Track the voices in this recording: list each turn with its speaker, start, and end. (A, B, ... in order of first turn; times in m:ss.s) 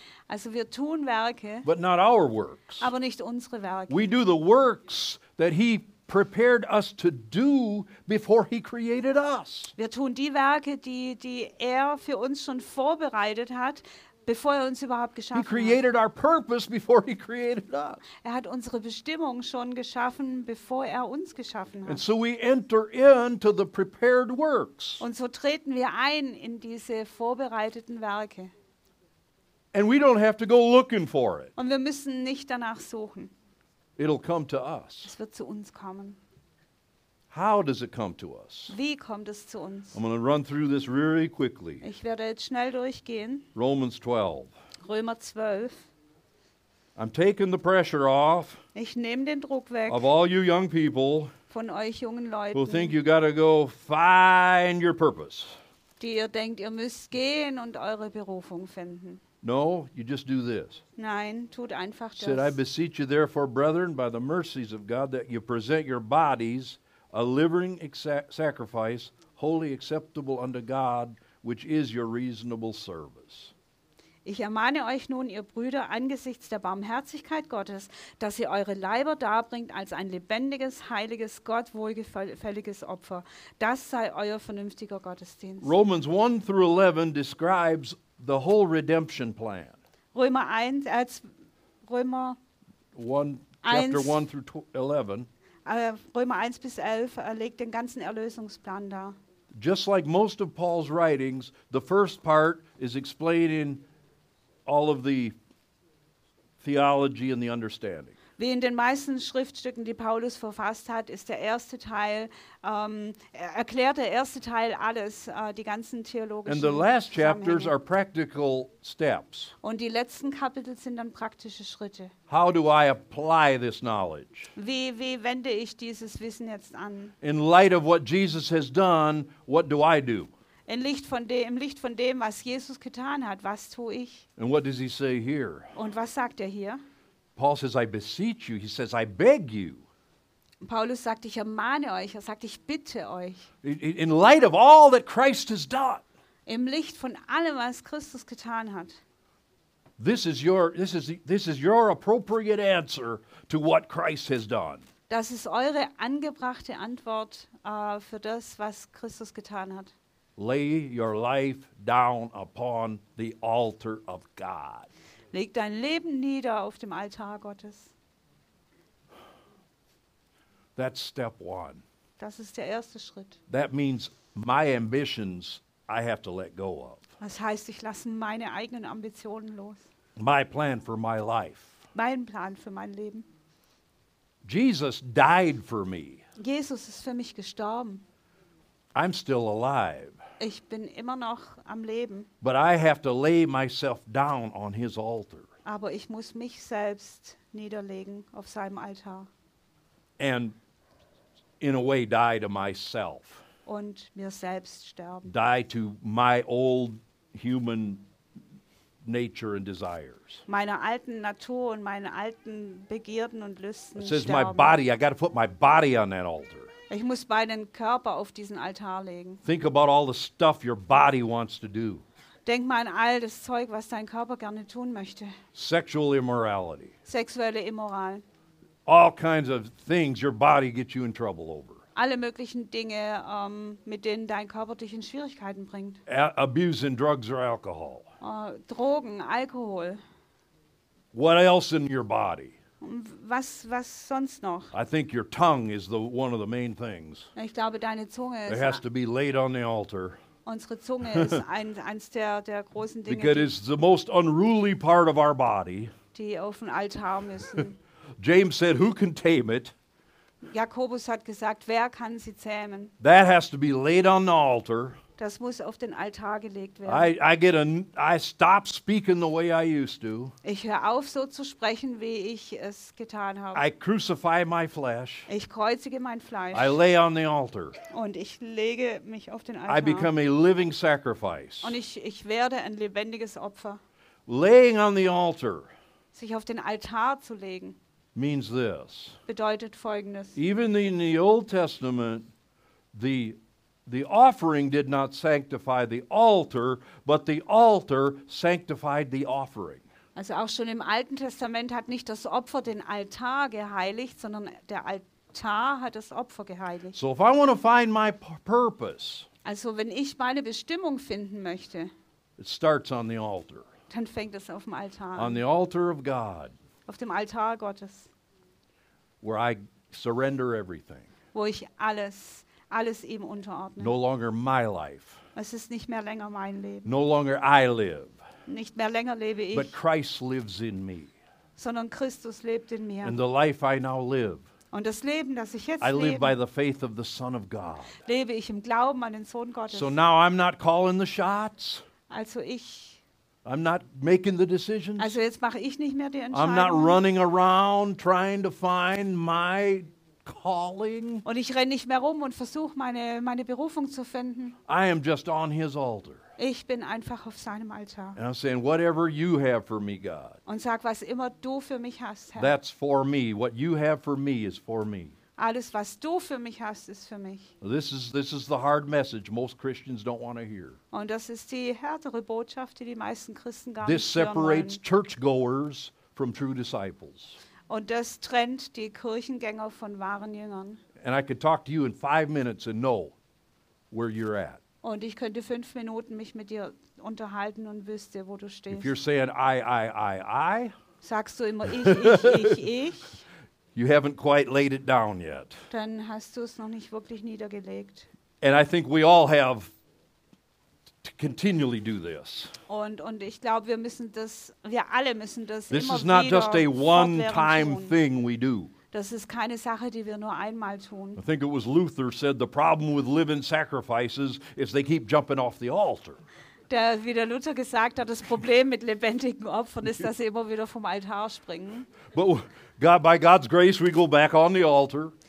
0:00.3-0:01.7 A
0:01.6-0:02.9 B
0:02.8-0:04.1 A
0:03.9-0:09.7 B
0:09.8-0:15.8 A
0:15.3-0:18.0 B
0:18.2-0:22.0 A
0:21.9-0:25.0 B
0:25.0-0:28.5 A
0:29.7-0:31.5 B
0:31.6-0:33.3 A
0:34.0-0:35.1 B
0:35.0-0:36.2 A
0:37.3-0:38.8 B
0:38.7-0:40.0 A
0:39.9-0:41.8 B
0:41.8-0:43.5 A
0:43.6-0:44.5 B
0:44.8-0:45.9 A
0:47.0-0:48.6 B
0:48.8-0:50.0 A
0:49.9-0:51.3 B
0:51.5-0:53.0 A
0:52.5-0:55.5 B
0:56.0-0:59.2 A
0:59.4-1:00.8 B
1:01.0-1:02.6 A
1:02.2-1:13.5 B
1:14.2-1:25.7 A
1:25.6-1:29.8 B
1:30.1-1:31.3 A
1:31.9-1:32.4 A
1:33.0-1:35.3 B
1:33.6-1:34.2 A
1:35.7-1:39.2 A
1:39.5-1:43.8 B
1:44.7-1:45.4 B
1:46.6-1:48.2 B
1:48.4-1:57.8 A
1:56.5-1:59.6 B
1:59.6-2:02.1 A
2:02.3-2:04.5 B
2:04.6-2:07.1 A
2:07.2-2:10.3 B
2:10.7-2:14.3 A
2:14.4-2:15.7 B
2:15.8-2:16.8 A
2:17.4-2:19.8 B
2:20.6-2:23.5 A
2:23.6-2:26.0 B
2:26.5-2:29.0 A
2:30.0-2:34.9 B
2:35.1-2:39.9 A
2:40.4-2:44.9 B
2:45.3-2:47.9 A
2:50.8-2:51.8 B
2:52.2-2:53.4 A
2:53.5-2:57.0 B
2:57.2-2:59.9 A
3:00.2-3:01.8 B
3:01.9-3:03.3 A
3:04.4-3:06.2 B
3:06.4-3:08.0 A
3:09.0-3:10.2 B
3:10.4-3:12.3 A
3:12.4-3:15.5 B
3:15.6-3:19.3 A
3:20.2-3:20.6 B
3:21.6-3:23.4 B
3:23.7-3:25.3 A
3:25.3-3:28.0 B
3:29.0-3:30.4 B
3:30.5-3:34.8 A
3:34.0-3:36.7 B
3:36.9-3:39.4 A
3:39.4-3:42.0 B
3:42.5-3:45.4 A
3:45.6-3:46.9 B
3:47.1-3:48.2 A
3:48.9-3:51.8 B
3:52.0-3:56.0 A
3:56.1-3:58.1 B
3:58.2-4:00.0 A
4:01.1-4:02.6 B
4:02.8-4:04.7 A
4:04.7-4:07.3 B
4:07.4-4:08.8 A
4:08.5-4:10.2 B
4:10.4-4:13.5 A
4:11.1-4:11.4 B
4:13.1-4:15.9 B
4:16.1-4:17.8 A
4:18.2-4:19.7 B
4:20.4-4:22.9 A
4:23.0-4:25.0 B
4:25.2-4:27.1 A
4:26.9-4:30.3 B
4:30.4-4:33.6 A
4:33.5-4:35.3 B
4:35.3-4:36.8 A
4:36.5-4:37.8 B
4:37.9-4:40.1 A
4:39.7-4:41.8 B
4:41.6-4:43.8 A
4:44.3-4:45.7 B
4:46.1-4:47.8 A
4:48.2-4:49.2 B
4:49.3-4:50.4 A
4:50.4-4:52.3 B
4:52.9-4:59.8 B
5:00.2-5:07.0 A
5:06.9-5:09.3 B
5:09.4-5:11.9 A
5:12.4-5:13.7 B
5:13.9-5:15.4 A
5:15.2-5:16.5 B
5:16.9-5:18.1 A
5:19.2-5:21.1 B
5:21.3-5:24.0 A
5:23.8-5:25.2 B
5:25.4-5:26.9 A
5:26.8-5:28.2 B
5:28.5-5:29.7 A
5:29.5-5:31.1 B
5:31.6-5:33.2 A
5:33.0-5:34.4 B
5:34.7-5:36.3 A
5:35.8-5:38.0 B
5:38.0-5:39.9 A
5:39.7-5:41.8 B
5:42.1-5:43.0 A
5:43.4-5:45.2 B
5:45.0-5:47.0 A
5:46.3-5:51.2 B
5:51.2-5:54.6 A
5:54.7-5:56.2 B
5:56.4-5:58.2 A
5:58.2-6:00.4 B
6:00.5-6:02.6 A
6:02.4-6:05.2 B
6:05.4-6:07.5 A
6:07.6-6:10.8 B
6:10.9-6:14.8 A
6:13.8-6:17.4 B
6:17.7-6:20.8 A
6:21.0-6:23.2 B
6:23.9-6:24.6 B
6:24.8-6:28.9 A
6:28.7-6:30.7 B
6:31.0-6:33.2 A
6:31.7-6:32.6 B
6:33.8-6:35.6 B
6:35.7-6:38.1 A
6:38.4-6:39.7 B
6:41.0-6:42.5 B
6:42.7-6:48.0 A
6:45.7-6:48.7 B
6:48.9-6:51.2 A
6:51.2-6:56.2 B
6:56.7-7:01.9 A
7:02.1-7:05.1 B